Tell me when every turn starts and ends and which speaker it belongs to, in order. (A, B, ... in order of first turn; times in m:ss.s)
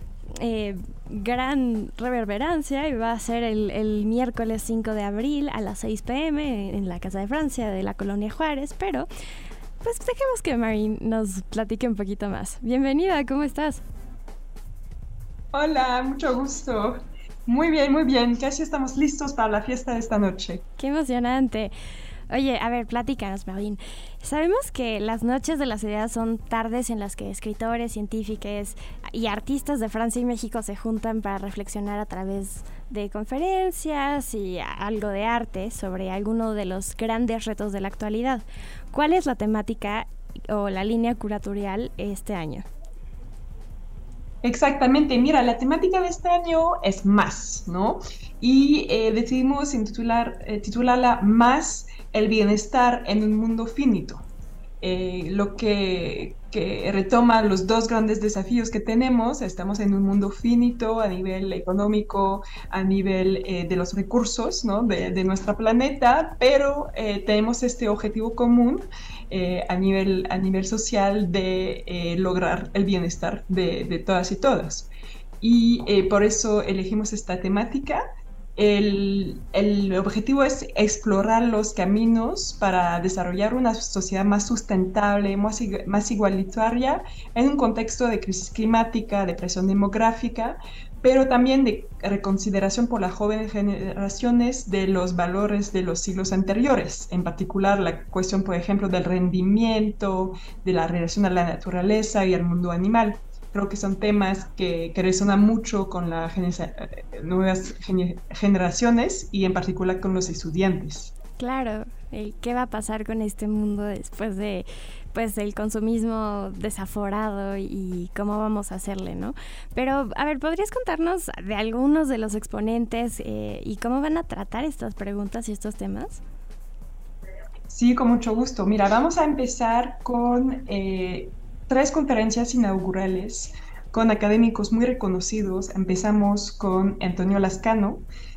0:00.3-0:09.1 A
0:09.8-0:13.8 A
0:15.5-0:20.6 B
0:20.8-0:21.7 A
0:22.3-0:42.7 A
0:44.4-0:54.2 B
0:54.8-1:14.9 B
1:15.4-1:18.0 B
1:18.6-1:51.1 B
1:51.4-2:06.2 A
2:07.7-2:18.1 B